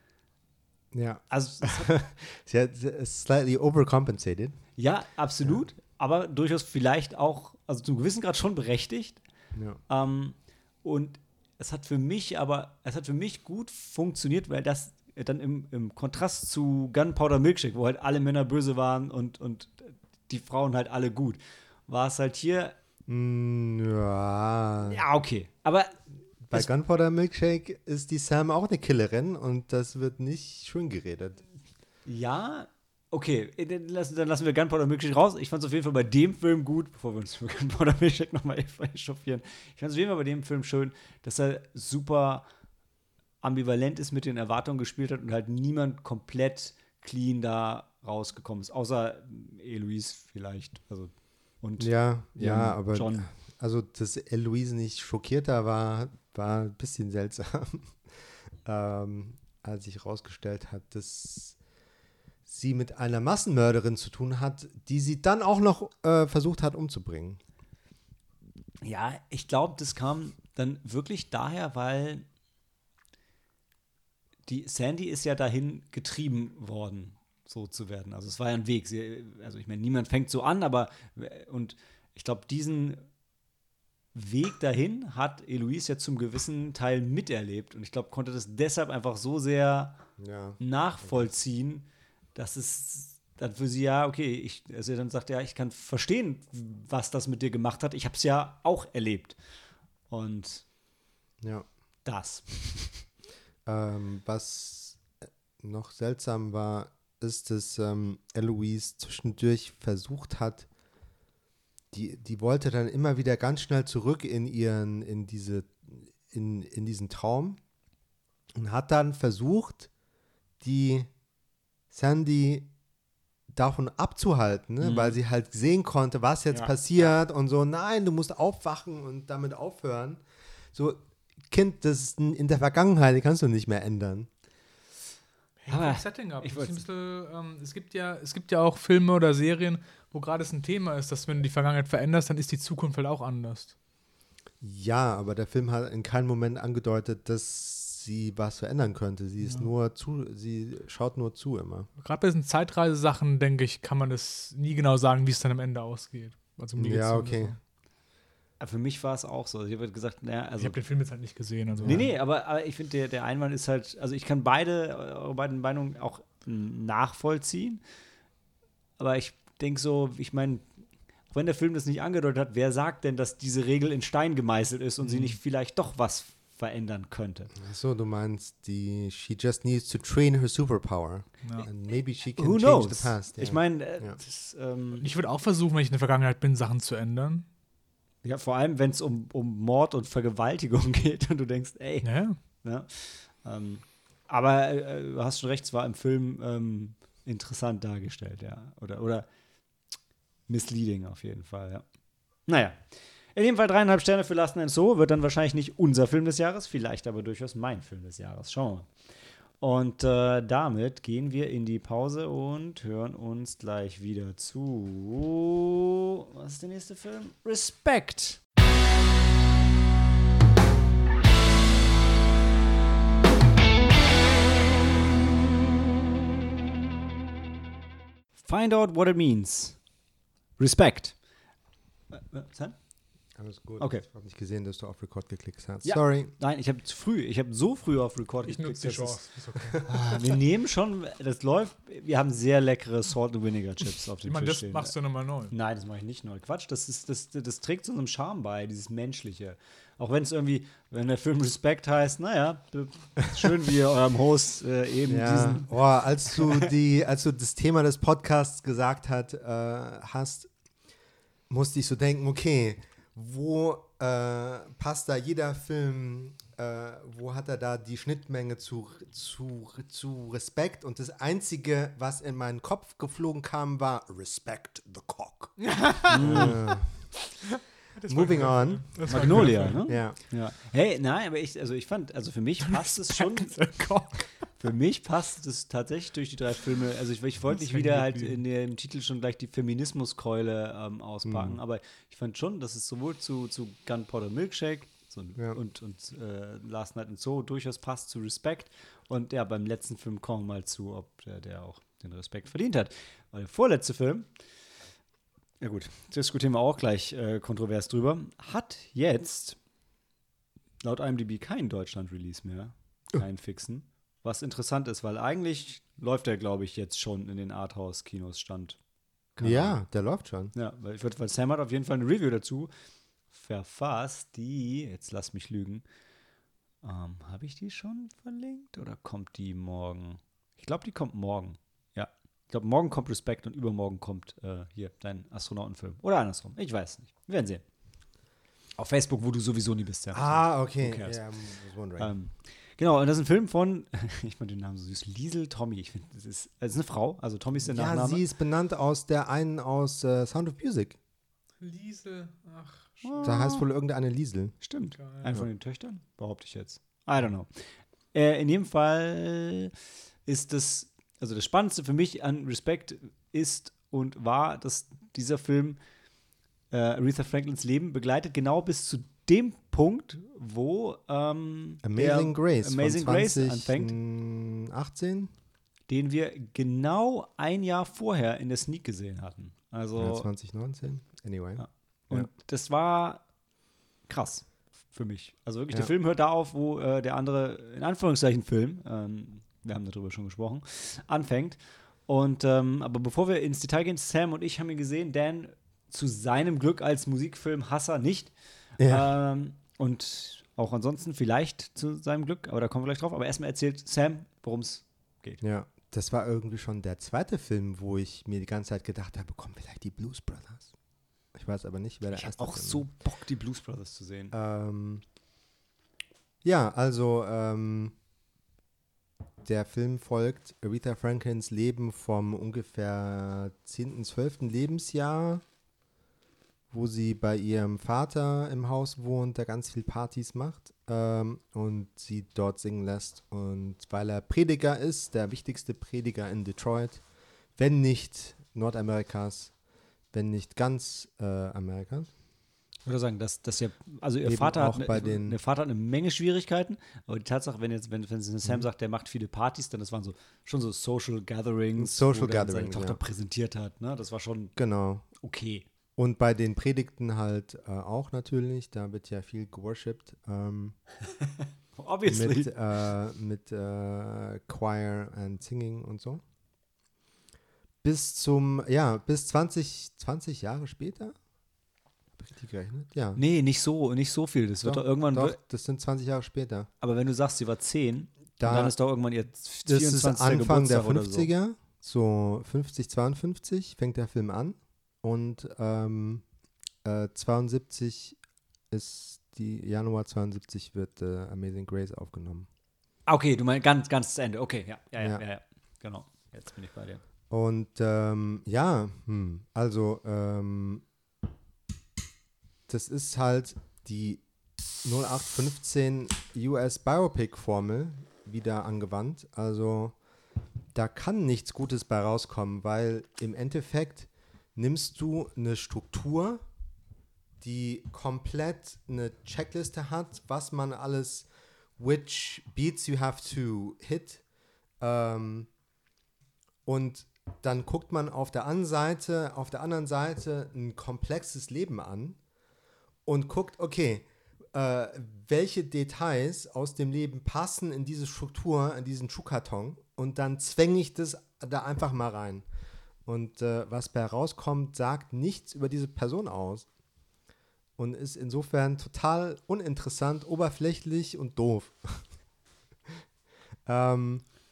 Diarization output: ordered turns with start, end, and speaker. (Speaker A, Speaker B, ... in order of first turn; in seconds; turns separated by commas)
Speaker A: 0.9-4.6, Speaker B: 1.3-1.9, Speaker B: 4.8-9.2, Speaker A: 9.5-9.8, Speaker B: 9.9-22.8, Speaker A: 23.1-25.0, Speaker B: 24.8-26.0, Speaker A: 26.5-31.4, Speaker B: 32.0-42.5, Speaker B: 43.4-53.3, Speaker A: 51.8-61.6, Speaker A: 62.5-67.4, Speaker B: 68.8-72.2, Speaker B: 74.5-83.0, Speaker B: 84.1-90.0, Speaker A: 90.2-91.3, Speaker B: 90.6-99.4, Speaker B: 100.1-100.6, Speaker A: 101.4-101.7, Speaker B: 102.0-103.0, Speaker A: 103.7-105.0, Speaker A: 105.6-110.7, Speaker A: 111.9-117.6, Speaker A: 118.5-119.9, Speaker A: 120.6-121.1, Speaker A: 121.9-122.7, Speaker A: 123.5-130.2, Speaker B: 124.8-125.2, Speaker B: 126.5-127.1, Speaker A: 130.7-134.3, Speaker C: 135.6-143.7, Speaker B: 135.7-136.8, Speaker A: 144.6-151.9, Speaker C: 149.4-149.7, Speaker C: 152.0-157.6, Speaker A: 156.8-157.5, Speaker B: 158.6-160.8, Speaker C: 160.6-162.1, Speaker A: 161.8-162.1, Speaker B: 161.8-167.8, Speaker B: 169.0-170.6, Speaker B: 171.3-177.5, Speaker C: 175.0-175.4, Speaker A: 177.6-184.2, Speaker C: 181.4-181.7, Speaker B: 182.3-185.0, Speaker C: 185.0-187.4, Speaker B: 188.2-199.3, Speaker C: 192.0-192.4, Speaker B: 200.5-201.8, Speaker B: 202.4-208.9, Speaker B: 209.6-215.8, Speaker B: 216.3-218.4, Speaker B: 228.4-229.8, Speaker B: 230.6-231.2, Speaker B: 232.1-232.8, Speaker A: 233.3-236.3, Speaker B: 233.8-234.1, Speaker B: 235.8-239.2, Speaker C: 238.4-240.0, Speaker A: 239.9-240.2, Speaker B: 239.9-244.9, Speaker C: 244.2-245.5, Speaker B: 245.5-256.7, Speaker A: 255.1-260.5, Speaker A: 261.5-277.1, Speaker C: 275.6-276.6, Speaker B: 276.1-276.6, Speaker C: 277.5-279.8, Speaker A: 278.1-280.2, Speaker B: 279.1-283.6, Speaker C: 282.6-284.4, Speaker B: 284.6-304.3, Speaker C: 287.5-288.4, Speaker A: 291.2-291.6, Speaker B: 305.6-309.6, Speaker B: 310.8-318.8, Speaker B: 319.3-319.8, Speaker A: 319.4-320.5, Speaker B: 320.5-322.7, Speaker B: 323.3-325.8, Speaker B: 326.8-337.6, Speaker B: 338.8-341.2, Speaker A: 340.1-342.1, Speaker B: 342.0-348.2, Speaker A: 347.6-351.0, Speaker C: 351.6-353.4, Speaker B: 353.0-353.6, Speaker A: 353.2-354.5, Speaker B: 354.6-357.5, Speaker C: 355.0-355.3, Speaker B: 358.1-359.7, Speaker B: 360.2-365.8, Speaker B: 366.7-373.9, Speaker A: 371.8-375.3, Speaker B: 375.9-380.3, Speaker A: 380.0-382.3, Speaker B: 381.6-383.2, Speaker B: 384.1-405.4, Speaker A: 398.8-399.1, Speaker A: 405.4-410.7, Speaker A: 411.3-412.8, Speaker B: 412.1-414.3, Speaker A: 414.3-415.0, Speaker A: 416.4-417.9, Speaker A: 419.4-425.4, Speaker A: 426.7-437.0, Speaker A: 437.6-439.5, Speaker A: 440.1-442.1, Speaker B: 442.9-454.5, Speaker A: 444.2-445.4, Speaker A: 451.8-453.0, Speaker A: 454.6-455.0, Speaker B: 455.2-455.6, Speaker A: 456.0-460.8, Speaker B: 461.2-462.5, Speaker A: 462.1-466.2, Speaker A: 467.8-471.1, Speaker A: 472.2-473.2, Speaker B: 473.1-475.4, Speaker A: 474.6-476.7, Speaker B: 476.8-481.3, Speaker A: 478.4-478.7, Speaker A: 479.6-486.2, Speaker A: 486.8-488.2, Speaker A: 488.7-492.5, Speaker B: 493.1-497.0, Speaker A: 497.3-500.8, Speaker A: 502.7-504.2, Speaker A: 504.8-510.0, Speaker A: 510.7-516.4, Speaker A: 517.4-524.2, Speaker A: 524.8-525.5, Speaker A: 526.6-532.2, Speaker A: 533.0-542.5, Speaker A: 543.0-546.7, Speaker A: 547.8-552.1, Speaker A: 553.6-554.2